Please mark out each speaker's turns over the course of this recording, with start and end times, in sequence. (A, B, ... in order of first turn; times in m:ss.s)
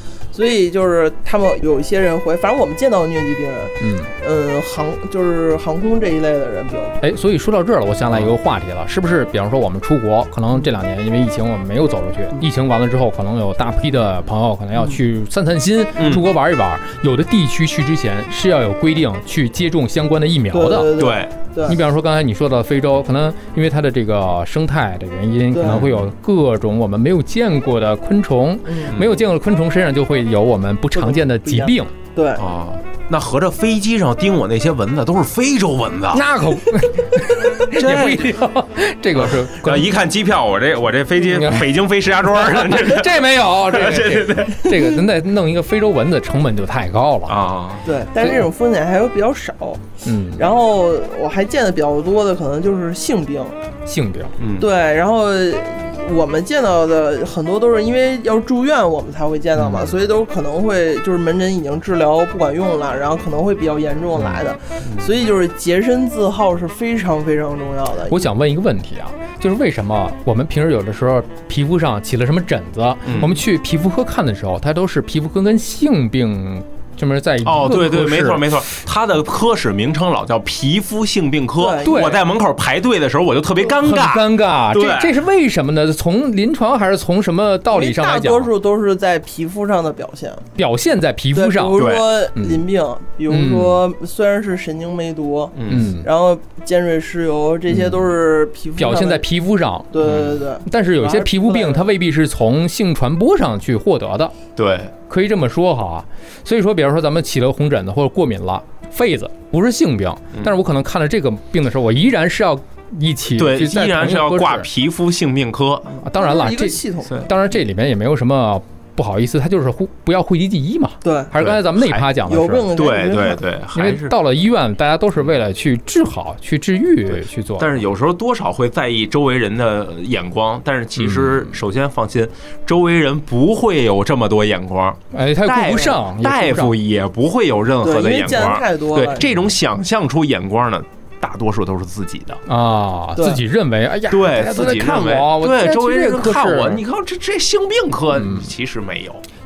0:00.3-0:07.0 A
0:03.8-0:04.1 B
0:07.0-0:21.0 B
0:16.0-0:16.3 C
0:20.5-0:21.8 A
0:21.0-0:21.3 C
0:21.6-0:31.9 B
0:25.5-0:25.8 A
0:25.6-0:26.1 C
0:28.7-0:28.9 A
0:28.9-0:29.2 C
0:30.9-0:32.5 A
0:32.4-0:36.3 C
0:36.1-0:39.9 B
0:37.7-0:38.4 C
0:39.1-0:44.9 C
0:41.3-0:41.7 B
0:42.3-0:47.4 B
0:47.3-0:47.8 C
0:47.8-0:53.6 A
0:50.0-0:50.4 B
0:53.8-0:54.3 B
0:54.4-0:54.7 C
0:54.6-1:08.3 A
0:59.6-1:00.0 B
1:04.8-1:05.1 C
1:08.1-1:18.5 B
1:13.0-1:13.3 C
1:17.4-1:25.2 C
1:21.6-1:22.2 A
1:21.8-1:22.2 B
1:23.6-1:28.5 B
1:27.7-1:30.5 A
1:30.6-1:32.6 B
1:31.3-1:39.2 A
1:31.8-1:32.1 C
1:33.3-1:33.8 B
1:35.6-1:35.9 C
1:35.7-1:36.1 B
1:38.8-1:44.3 B
1:39.9-1:41.9 A
1:40.0-1:40.4 C
1:44.6-1:44.9 C
1:45.1-1:54.7 B
1:53.4-1:55.9 C
1:55.9-1:57.3 A
1:56.0-2:02.7 B
2:01.0-2:01.3 A
2:01.4-2:02.0 C
2:02.2-2:03.4 A
2:02.7-2:04.1 C
2:03.7-2:07.8 B
2:07.6-2:22.4 C
2:11.0-2:11.5 B
2:15.1-2:16.8 B
2:17.8-2:19.3 A
2:22.4-2:26.8 B
2:24.1-2:29.2 C
2:28.1-2:28.5 B